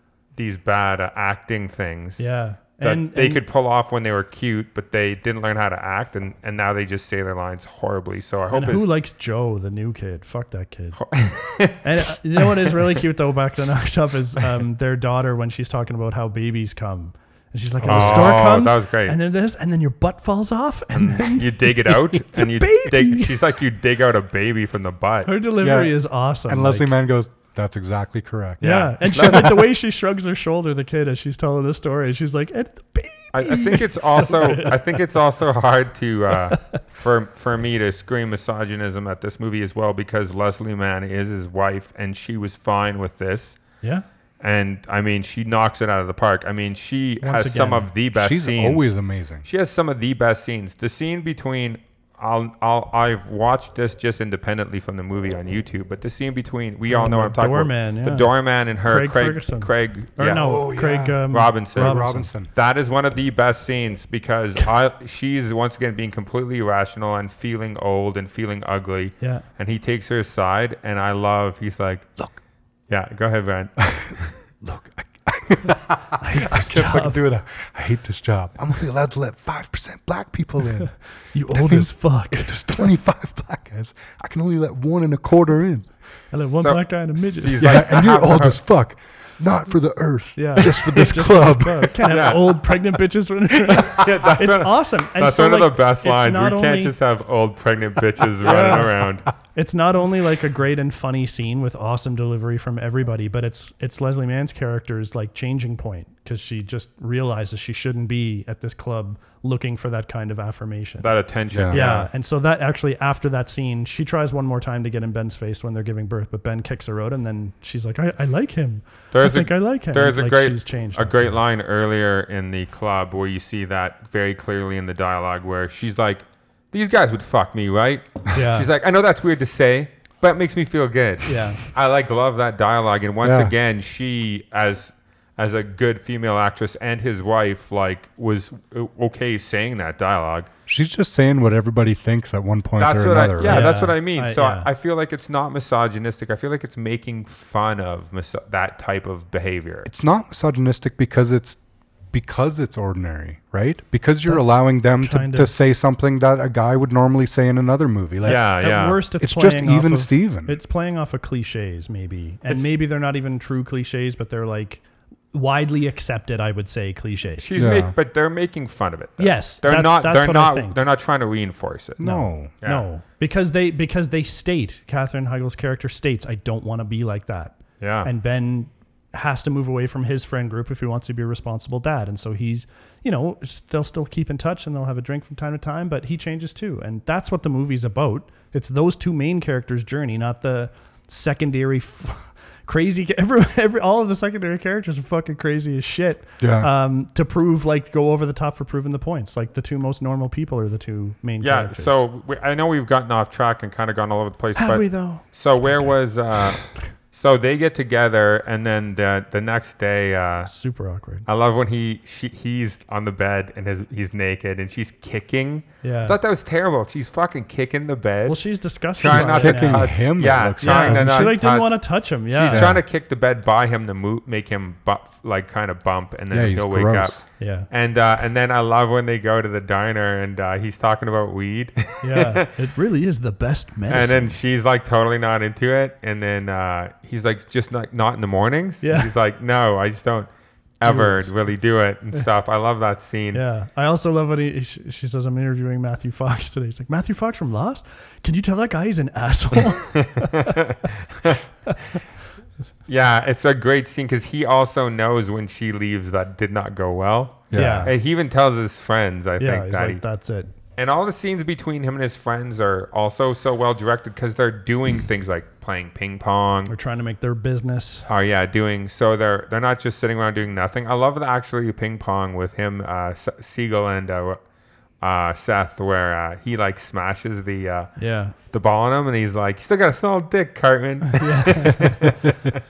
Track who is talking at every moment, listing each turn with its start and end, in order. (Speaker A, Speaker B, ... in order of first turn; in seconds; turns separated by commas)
Speaker A: 0.4-2.2, Speaker B: 2.2-3.4, Speaker A: 2.8-8.9, Speaker B: 8.5-11.0, Speaker A: 11.0-11.8, Speaker B: 11.8-23.4, Speaker A: 12.4-12.9, Speaker C: 17.8-18.4, Speaker A: 17.9-19.2, Speaker A: 20.9-25.3, Speaker B: 25.2-27.0, Speaker C: 25.6-25.9, Speaker C: 26.5-28.6, Speaker A: 28.6-29.7, Speaker B: 28.6-34.8, Speaker A: 33.3-43.6, Speaker A: 44.4-48.9, Speaker B: 47.2-47.9, Speaker C: 48.1-49.5, Speaker A: 49.4-60.5, Speaker B: 56.9-58.3, Speaker B: 58.8-62.3, Speaker C: 60.3-62.5, Speaker A: 61.3-72.1, Speaker A: 72.9-74.3, Speaker C: 74.6-81.0, Speaker B: 76.2-77.2, Speaker B: 81.3-82.9, Speaker C: 81.5-85.9, Speaker B: 86.3-87.6, Speaker A: 86.6-88.6, Speaker C: 87.6-92.1, Speaker B: 90.4-97.0, Speaker A: 92.1-92.8, Speaker A: 93.7-99.3, Speaker B: 98.4-98.9, Speaker B: 99.5-111.1, Speaker A: 111.0-112.1, Speaker C: 111.5-111.9, Speaker B: 111.7-121.4, Speaker A: 119.1-140.5, Speaker B: 128.3-128.7, Speaker B: 131.3-131.6, Speaker C: 133.2-133.5, Speaker C: 140.7-143.7, Speaker A: 142.8-149.9, Speaker B: 143.4-144.7, Speaker C: 149.8-151.6, Speaker C: 152.1-158.5, Speaker B: 154.3-155.5, Speaker B: 158.2-167.6, Speaker A: 158.2-159.0, Speaker C: 159.2-160.6, Speaker A: 167.4-172.8, Speaker C: 167.5-167.9, Speaker B: 169.2-170.8, Speaker C: 172.0-172.5, Speaker B: 172.0-202.0, Speaker A: 177.8-178.1, Speaker C: 196.4-196.7, Speaker A: 201.4-210.5, Speaker B: 204.6-206.0, Speaker B: 210.5-211.2, Speaker A: 211.3-232.5, Speaker B: 215.8-216.2, Speaker B: 218.3-220.0, Speaker C: 219.0-221.4, Speaker B: 220.6-222.7, Speaker C: 222.5-222.8, Speaker C: 226.3-227.2, Speaker B: 227.4-227.7, Speaker B: 232.0-234.3, Speaker A: 233.9-240.3, Speaker B: 238.8-239.1, Speaker A: 240.8-243.4, Speaker B: 240.8-241.3, Speaker B: 243.3-250.5, Speaker A: 250.0-251.4, Speaker A: 252.9-260.0, Speaker C: 257.5-257.9, Speaker B: 257.5-257.9, Speaker B: 259.4-260.5, Speaker A: 260.8-266.7, Speaker B: 266.7-268.1, Speaker A: 268.1-274.4, Speaker A: 275.0-282.6, Speaker B: 278.0-278.3, Speaker B: 281.1-282.1